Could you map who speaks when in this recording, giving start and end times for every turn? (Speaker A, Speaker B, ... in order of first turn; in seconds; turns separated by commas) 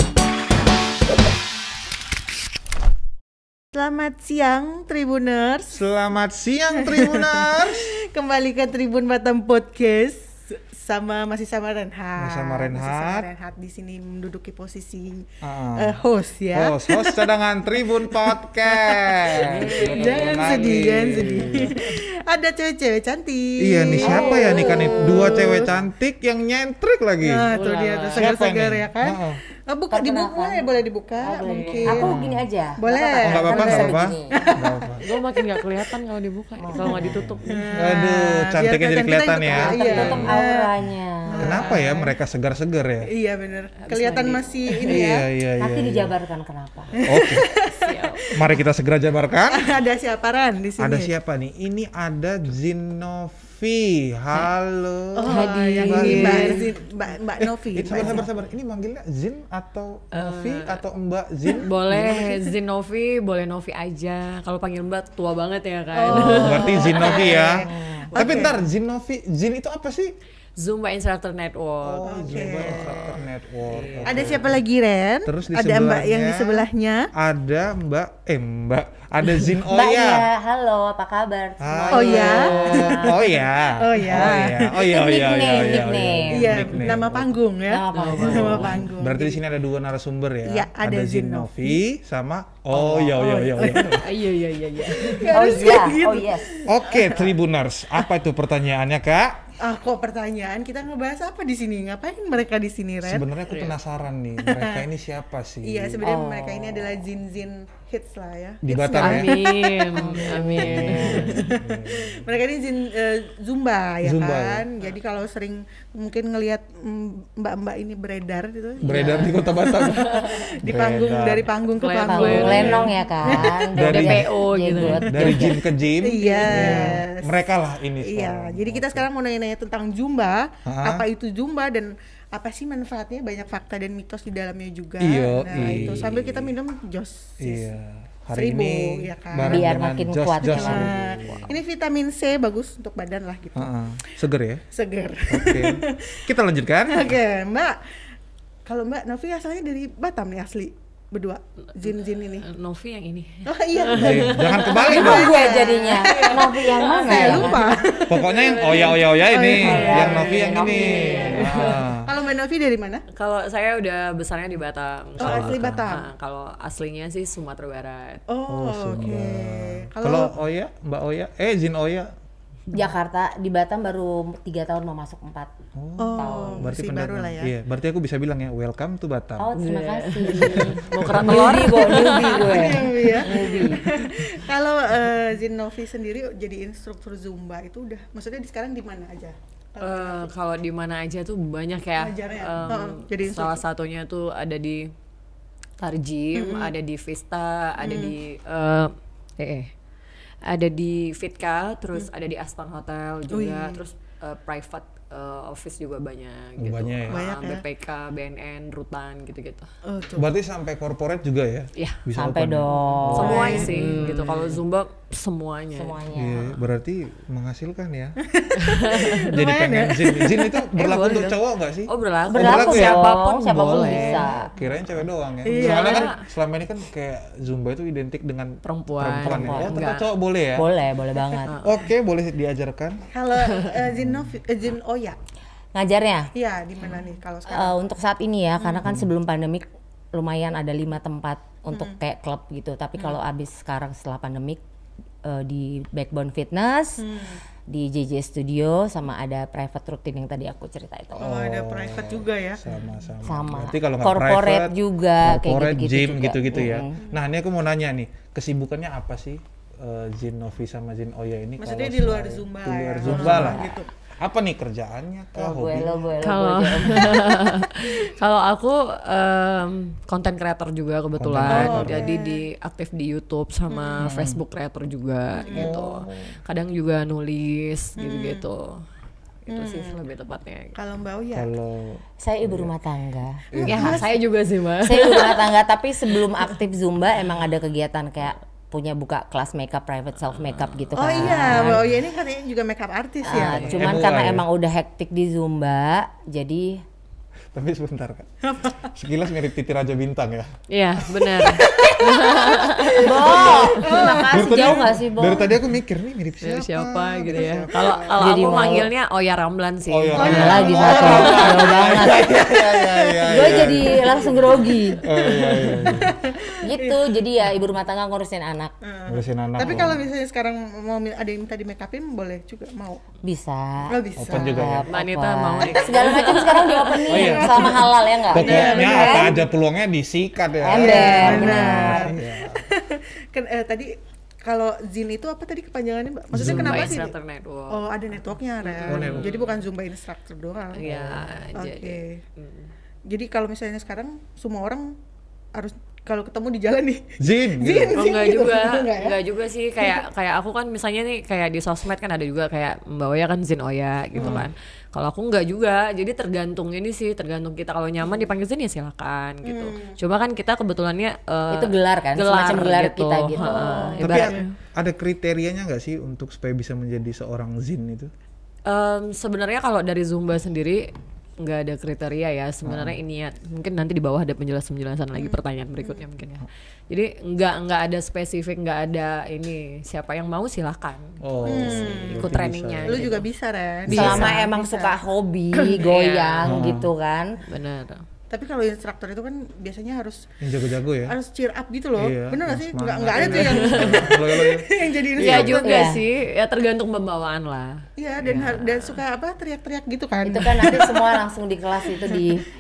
Speaker A: 3.7-5.8, Speaker B: 5.7-7.9, Speaker A: 6.7-17.3, Speaker B: 12.2-13.3, Speaker B: 15.4-16.0, Speaker B: 16.5-21.8, Speaker A: 18.1-25.8, Speaker C: 19.4-21.9, Speaker B: 23.6-27.5, Speaker A: 27.2-32.2, Speaker C: 27.5-28.3, Speaker B: 28.1-29.4, Speaker D: 29.9-30.7, Speaker D: 31.2-34.5, Speaker C: 31.4-32.0, Speaker B: 32.0-32.4, Speaker A: 32.8-35.6, Speaker B: 33.2-35.0, Speaker C: 35.0-37.8, Speaker D: 36.6-37.1, Speaker A: 36.8-40.7, Speaker B: 36.9-40.4, Speaker D: 39.5-41.7, Speaker A: 41.3-42.2, Speaker B: 41.4-43.1, Speaker A: 43.0-45.3, Speaker C: 43.8-44.9, Speaker B: 44.9-46.1, Speaker D: 45.6-47.0, Speaker A: 47.0-48.6, Speaker B: 47.0-47.5, Speaker C: 47.7-48.4, Speaker B: 48.3-49.7, Speaker A: 49.5-51.1, Speaker B: 50.8-56.6, Speaker A: 55.1-58.3, Speaker D: 55.3-56.6, Speaker C: 55.4-56.6, Speaker B: 57.4-61.8, Speaker C: 60.1-60.8, Speaker A: 61.5-62.5, Speaker C: 61.6-67.3, Speaker A: 65.9-68.6, Speaker B: 66.1-70.1, Speaker D: 67.7-68.0, Speaker C: 68.2-68.6, Speaker C: 70.6-73.1, Speaker B: 71.8-74.6, Speaker A: 72.0-73.3, Speaker C: 73.6-74.5, Speaker A: 74.1-77.1, Speaker B: 75.3-80.3, Speaker D: 79.7-83.3, Speaker B: 81.6-87.4, Speaker A: 81.9-85.0, Speaker C: 82.3-82.9, Speaker D: 84.2-86.8, Speaker A: 86.3-89.4, Speaker D: 87.7-88.8, Speaker C: 87.9-88.8, Speaker B: 88.3-94.1, Speaker A: 90.5-91.8, Speaker D: 92.7-93.1, Speaker A: 92.9-94.2, Speaker C: 94.0-95.7, Speaker A: 94.8-97.3, Speaker D: 95.3-96.5, Speaker B: 96.7-99.5, Speaker A: 99.6-103.3, Speaker B: 103.0-106.0, Speaker C: 103.5-103.8, Speaker A: 104.4-104.9, Speaker A: 105.6-123.7, Speaker D: 106.0-107.0, Speaker B: 108.6-109.3, Speaker C: 109.0-111.5, Speaker B: 110.0-112.3, Speaker B: 114.0-114.7, Speaker C: 118.8-120.3, Speaker B: 118.8-121.5, Speaker C: 121.7-122.9, Speaker D: 122.0-125.6, Speaker B: 123.2-124.3, Speaker C: 123.8-125.4, Speaker B: 125.0-129.1, Speaker A: 126.0-127.4, Speaker D: 126.5-127.0, Speaker A: 128.0-137.7, Speaker B: 130.7-131.1, Speaker B: 135.0-136.5, Speaker C: 135.6-136.0, Speaker B: 137.4-141.6, Speaker A: 138.3-139.7, Speaker D: 139.4-140.9, Speaker A: 140.4-143.7, Speaker B: 143.6-144.6, Speaker A: 144.7-146.2, Speaker B: 145.3-147.1, Speaker A: 146.9-147.8, Speaker A: 148.7-152.5, Speaker C: 152.4-155.2, Speaker A: 153.4-163.1, Speaker B: 153.9-155.4, Speaker D: 154.9-157.7, Speaker C: 156.0-161.8, Speaker B: 158.1-162.1, Speaker D: 159.6-161.7, Speaker C: 163.1-168.2, Speaker A: 165.2-166.1, Speaker B: 165.2-165.9, Speaker A: 168.3-170.3, Speaker B: 168.5-172.1, Speaker D: 172.7-175.5, Speaker B: 175.8-179.5, Speaker A: 176.0-177.5, Speaker D: 176.2-176.7, Speaker D: 179.4-183.9, Speaker C: 179.6-182.8, Speaker B: 180.4-181.3, Speaker A: 181.9-190.3, Speaker C: 189.8-194.9, Speaker A: 192.0-193.6, Speaker C: 195.8-199.7, Speaker A: 196.3-196.7, Speaker A: 197.8-198.2, Speaker C: 200.4-209.7, Speaker A: 203.3-203.8, Speaker B: 206.6-207.2, Speaker A: 207.1-207.6, Speaker A: 209.8-210.3, Speaker B: 210.2-214.6, Speaker C: 211.8-212.0, Speaker D: 212.2-214.2, Speaker C: 213.2-216.0, Speaker A: 213.2-213.8, Speaker D: 215.8-216.6, Speaker B: 216.1-218.2, Speaker A: 218.3-220.7, Speaker C: 218.6-219.3, Speaker B: 219.2-223.1, Speaker C: 220.8-224.3, Speaker D: 222.3-224.5, Speaker A: 224.0-224.3, Speaker B: 224.5-230.7, Speaker A: 225.4-226.1, Speaker C: 225.5-226.2, Speaker C: 228.6-230.1, Speaker D: 229.2-229.8, Speaker D: 230.6-231.5, Speaker C: 231.5-231.9, Speaker B: 231.6-233.1, Speaker A: 233.1-235.2, Speaker C: 233.3-233.8, Speaker B: 233.9-234.2, Speaker D: 235.7-236.3, Speaker A: 236.3-237.8, Speaker D: 237.5-244.6, Speaker A: 238.6-238.9, Speaker D: 245.2-247.1, Speaker A: 247.0-247.4, Speaker D: 247.7-251.3, Speaker A: 251.2-252.6, Speaker B: 251.2-266.1, Speaker D: 253.2-257.0, Speaker A: 261.6-263.9, Speaker D: 263.1-263.8, Speaker D: 265.4-267.3, Speaker C: 266.2-278.8, Speaker B: 271.2-272.1, Speaker A: 271.5-272.4, Speaker A: 273.7-274.1, Speaker B: 274.0-274.4, Speaker A: 275.4-275.8, Speaker B: 275.5-276.4, Speaker A: 278.0-278.4, Speaker C: 279.5-280.8, Speaker A: 279.5-280.0, Speaker A: 280.8-281.5, Speaker B: 281.4-282.7, Speaker D: 282.2-284.0, Speaker B: 283.5-284.1, Speaker C: 283.6-285.5, Speaker D: 284.8-291.9, Speaker C: 290.5-290.9, Speaker A: 290.9-293.7, Speaker B: 291.2-291.9, Speaker D: 293.2-296.8, Speaker C: 293.3-294.0, Speaker B: 293.7-294.4, Speaker B: 297.5-298.3, Speaker A: 298.4-298.9, Speaker B: 298.9-300.5, Speaker C: 300.7-303.6, Speaker B: 301.2-301.8, Speaker A: 301.5-305.0, Speaker D: 303.0-305.6, Speaker B: 303.2-307.7, Speaker C: 306.4-311.6, Speaker A: 307.3-308.5, Speaker D: 308.2-308.9, Speaker B: 309.9-314.4, Speaker A: 310.2-314.4, Speaker D: 310.2-312.3, Speaker D: 313.2-315.1, Speaker B: 315.0-316.2, Speaker A: 315.1-317.2, Speaker D: 316.6-318.7, Speaker A: 318.8-323.0, Speaker B: 319.1-320.0, Speaker D: 323.2-329.4, Speaker A: 323.9-324.8, Speaker B: 324.2-324.9, Speaker C: 324.9-327.4, Speaker A: 327.1-329.5, Speaker B: 327.1-332.6, Speaker C: 328.4-329.1, Speaker D: 330.6-332.2, Speaker A: 330.7-337.1, Speaker B: 336.3-337.0, Speaker C: 336.4-337.8, Speaker A: 337.7-342.2, Speaker C: 338.6-339.6, Speaker B: 338.9-339.3, Speaker C: 340.8-342.7, Speaker A: 343.1-344.9, Speaker A: 345.5-349.2, Speaker B: 347.2-348.0, Speaker C: 347.9-364.5, Speaker B: 354.2-354.5, Speaker A: 359.4-360.0, Speaker D: 361.5-364.1, Speaker A: 363.4-364.4, Speaker B: 364.0-368.1, Speaker C: 368.7-383.3, Speaker B: 372.7-373.0, Speaker A: 375.1-376.0, Speaker B: 381.2-383.1, Speaker A: 381.4-384.9, Speaker B: 383.9-384.4, Speaker D: 383.9-387.4, Speaker C: 385.6-386.6, Speaker B: 386.4-386.9, Speaker C: 387.4-388.1, Speaker A: 388.3-390.4, Speaker B: 390.4-391.1, Speaker A: 391.1-395.9, Speaker B: 392.0-395.5, Speaker C: 393.2-394.1, Speaker C: 395.2-399.0, Speaker D: 395.6-396.0, Speaker A: 398.0-401.2, Speaker D: 400.2-402.5, Speaker A: 402.0-402.4